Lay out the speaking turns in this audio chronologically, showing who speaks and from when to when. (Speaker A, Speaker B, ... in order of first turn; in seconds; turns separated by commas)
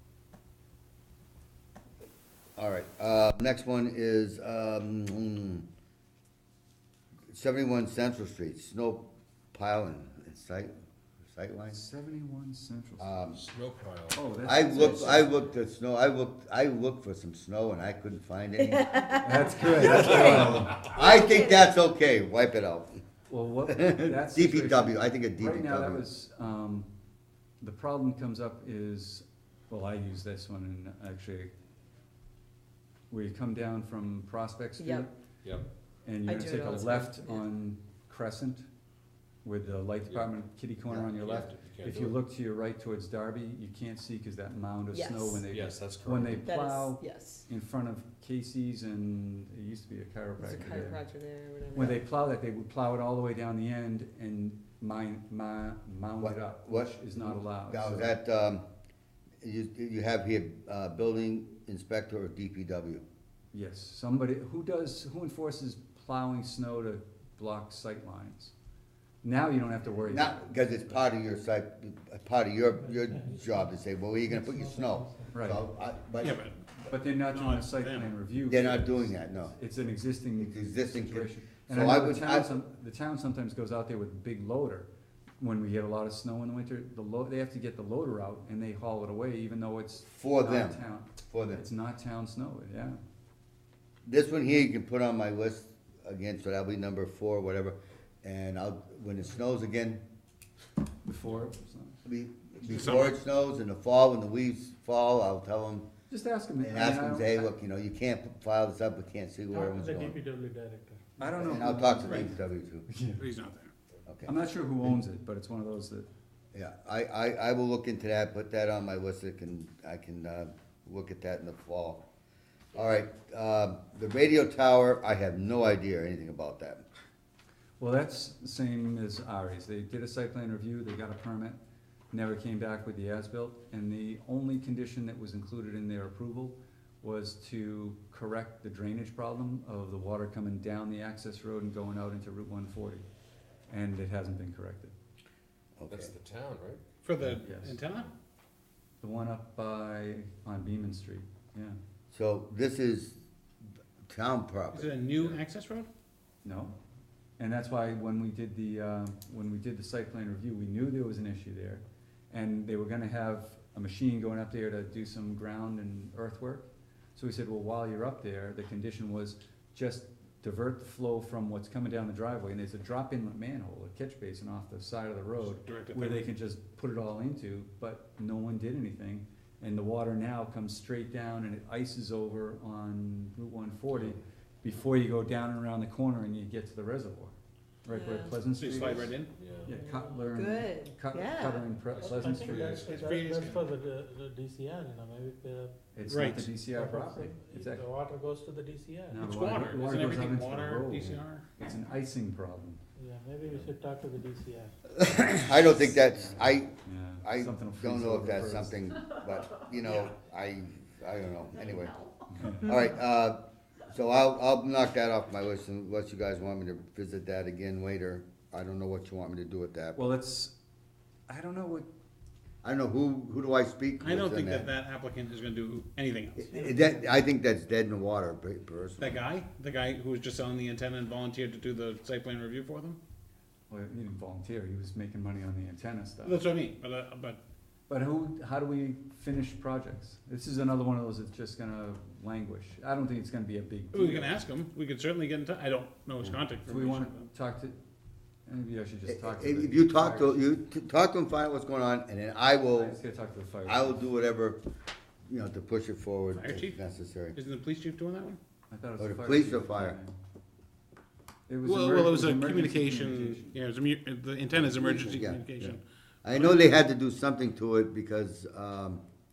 Speaker A: 2.6-5.7, Speaker A: 7.3-10.7, Speaker A: 11.3-11.8, Speaker B: 11.7-13.2, Speaker A: 13.0-13.4, Speaker C: 13.3-14.9, Speaker B: 14.1-15.4, Speaker A: 14.4-23.0, Speaker D: 18.8-21.7, Speaker B: 19.1-20.9, Speaker C: 19.9-21.0, Speaker B: 23.3-26.9, Speaker A: 23.7-26.1, Speaker B: 27.6-31.5, Speaker B: 33.1-35.1, Speaker D: 34.8-35.1, Speaker B: 36.0-38.6, Speaker D: 36.3-37.5, Speaker B: 39.4-51.0, Speaker A: 40.9-41.4, Speaker C: 41.1-42.2, Speaker D: 44.9-45.5, Speaker C: 45.5-46.5, Speaker D: 46.4-47.5, Speaker D: 50.4-52.0, Speaker B: 51.7-58.2, Speaker A: 56.2-58.6, Speaker A: 59.4-63.0, Speaker B: 63.5-68.5, Speaker B: 69.2-71.0, Speaker A: 70.1-76.4, Speaker E: 72.8-75.3, Speaker B: 75.3-75.6, Speaker F: 76.2-76.6, Speaker B: 76.9-84.9, Speaker F: 77.3-78.1, Speaker A: 78.5-79.5, Speaker A: 80.4-82.5, Speaker B: 85.4-93.0, Speaker A: 90.0-91.6, Speaker A: 94.1-100.0, Speaker B: 101.0-102.0, Speaker A: 102.1-105.9, Speaker F: 102.7-103.2, Speaker B: 106.1-107.5, Speaker A: 106.6-110.2, Speaker E: 109.5-111.4, Speaker B: 111.2-113.2, Speaker A: 111.3-112.9, Speaker F: 113.2-113.7, Speaker A: 114.1-114.3, Speaker B: 114.2-116.1, Speaker A: 116.5-122.0, Speaker A: 122.7-126.8, Speaker B: 127.8-131.6, Speaker B: 132.1-143.1, Speaker B: 143.7-144.9, Speaker A: 145.8-146.1, Speaker C: 145.9-146.8, Speaker F: 147.0-148.1, Speaker B: 147.4-147.8, Speaker B: 149.0-151.8, Speaker A: 152.1-153.2, Speaker A: 154.1-154.9, Speaker F: 154.7-155.9, Speaker B: 156.4-156.8, Speaker B: 157.4-192.9, Speaker F: 175.4-176.3, Speaker D: 187.9-188.4, Speaker F: 188.6-189.3, Speaker C: 188.9-189.8, Speaker D: 190.3-191.9, Speaker C: 191.9-193.2, Speaker E: 192.0-199.3, Speaker F: 193.0-193.6, Speaker B: 195.9-197.8, Speaker F: 196.1-196.5, Speaker B: 199.1-202.8, Speaker F: 199.2-201.5, Speaker E: 203.0-204.8, Speaker A: 205.0-212.0, Speaker B: 206.0-208.8, Speaker B: 212.3-212.8, Speaker A: 212.6-220.0, Speaker B: 219.9-220.6, Speaker B: 221.3-221.9, Speaker A: 222.6-224.7, Speaker F: 224.0-226.4, Speaker A: 226.4-229.2, Speaker E: 226.5-227.2, Speaker F: 229.0-233.0, Speaker B: 233.7-236.4, Speaker F: 236.2-237.4, Speaker B: 237.9-244.4, Speaker F: 243.9-247.3, Speaker B: 246.7-247.8, Speaker B: 248.5-250.5, Speaker A: 249.1-253.0, Speaker B: 252.8-254.0, Speaker A: 253.7-254.6, Speaker A: 255.3-257.4, Speaker F: 256.3-256.8, Speaker F: 257.3-258.4, Speaker B: 258.7-260.2, Speaker A: 259.0-260.0, Speaker B: 261.5-263.6, Speaker F: 261.6-266.7, Speaker A: 264.5-269.0